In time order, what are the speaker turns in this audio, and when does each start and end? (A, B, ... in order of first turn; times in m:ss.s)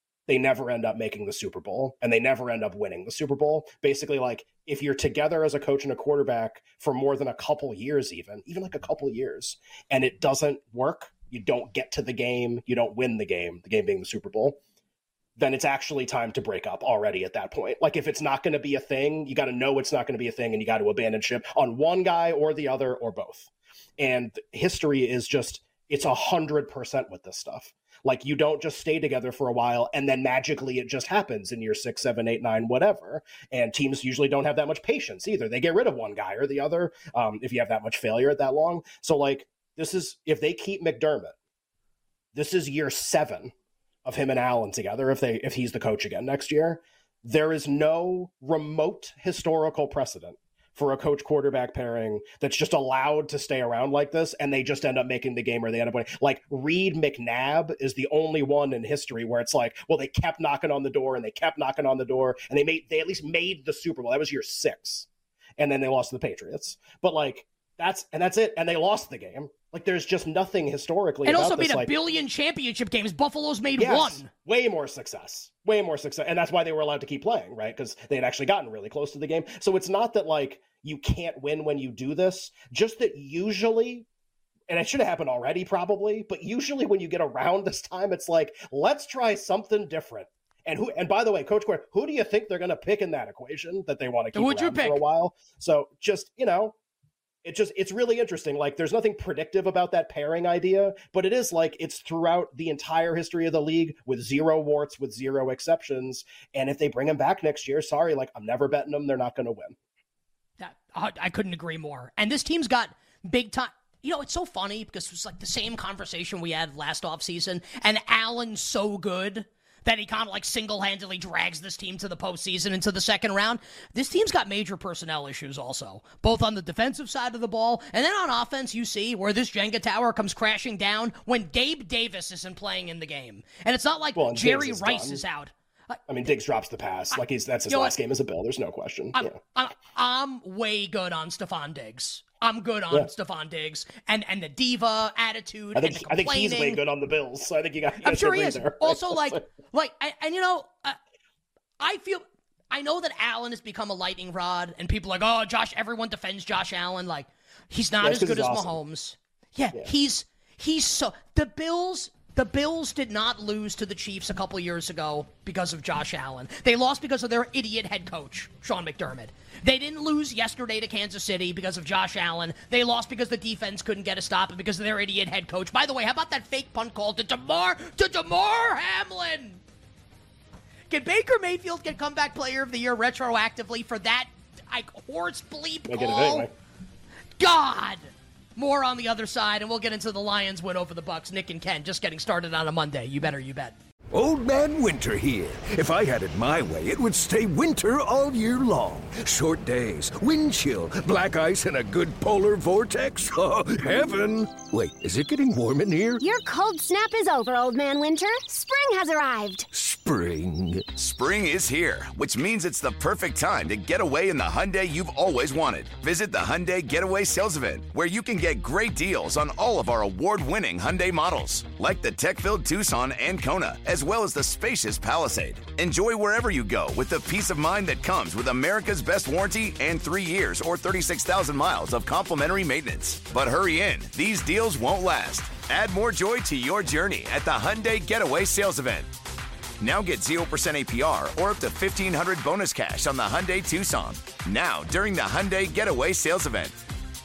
0:00.3-0:14.6 A
0:15.4-0:41.3 A
0:42.3-0:43.5 A
0:44.0-1:05.1 A
1:05.6-1:11.9 A
1:11.2-1:14.3 B
1:13.8-1:24.0 A
1:24.7-1:36.7 A
1:34.3-1:35.0 B
1:37.4-1:49.7 A
1:50.6-2:16.0 B
2:14.1-2:15.2 A
2:16.1-2:19.4 A
2:17.1-2:17.9 B
2:19.1-2:26.8 B
2:25.7-2:29.4 A
2:28.0-2:31.0 B
2:31.8-2:59.6 B
2:38.0-2:38.8 A
3:00.9-3:06.5 B
3:05.9-3:06.5 A
3:07.4-3:13.8 B
3:14.1-3:26.2 C
3:26.2-3:29.7 D
3:29.7-3:31.0 C
3:31.0-3:59.1 E
3:59.8-4:06.7 E